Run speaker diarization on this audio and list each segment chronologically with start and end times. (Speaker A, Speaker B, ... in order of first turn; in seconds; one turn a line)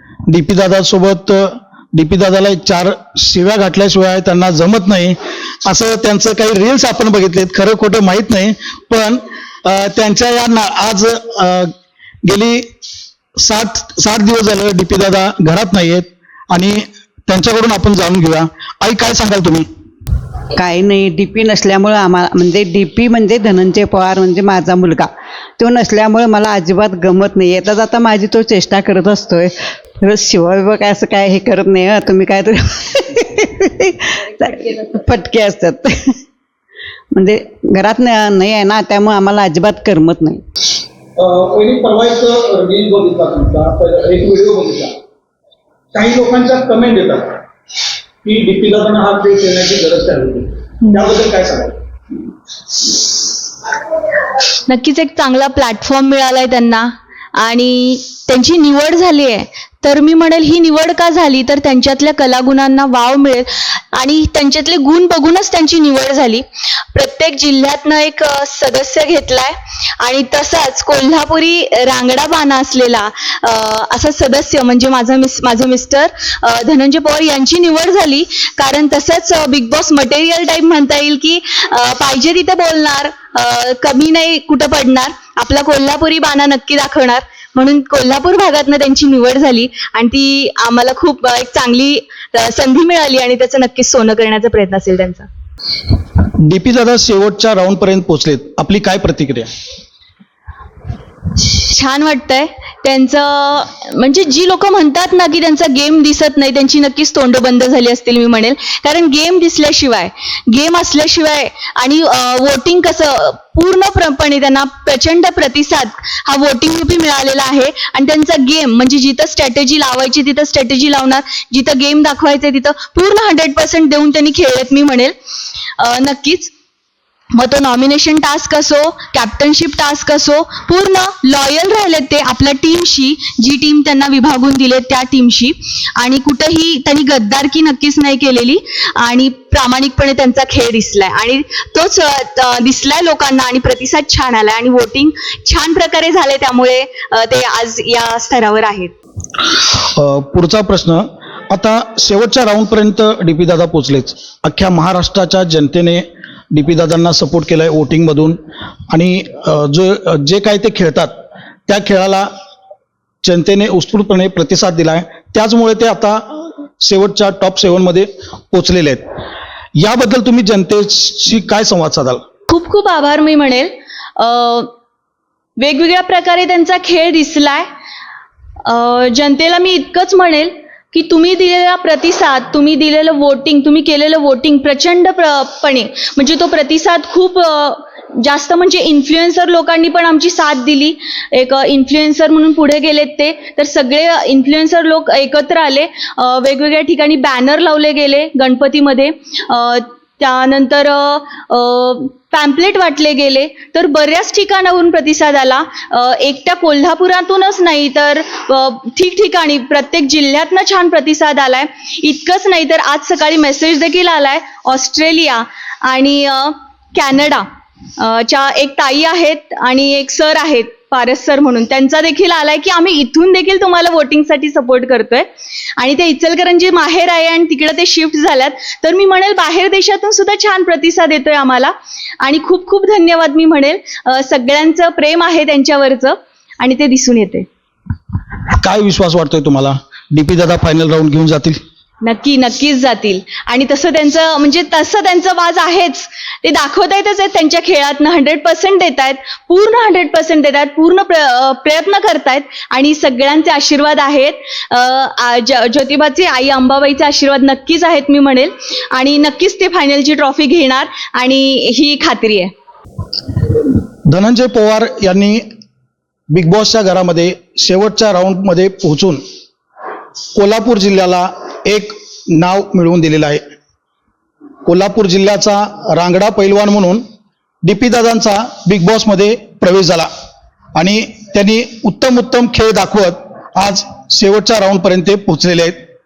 Speaker A: 0.3-11.7
Speaker A: 12.2-12.7
Speaker A: 13.4-19.7
Speaker B: 20.6-36.1
Speaker B: 37.1-40.4
Speaker A: 41.2-45.0
Speaker A: 45.9-47.4
Speaker A: 48.2-51.8
Speaker C: 54.7-95.3
Speaker A: 96.4-99.5
Speaker C: 101.4-125.1
Speaker C: 125.8-126.5
Speaker C: 127.3-148.9
Speaker A: 149.4-158.4
Speaker A: 158.9-161.1
Speaker A: 161.7-162.3
Speaker A: 163.2-169.0
Speaker A: 169.8-172.2
Speaker C: 172.5-174.7
Speaker C: 175.6-177.7
Speaker C: 178.7-217.4
Speaker C: 218.0-225.3
Speaker C: 225.8-237.5
Speaker A: 238.6-241.6
Speaker C: 242.0-262.5
Speaker A: 264.1-265.4
Speaker A: 266.3-269.2
Speaker A: 270.3-273.4
Speaker A: 274.6-277.0
Speaker A: 277.6-280.1
Speaker A: 280.8-285.8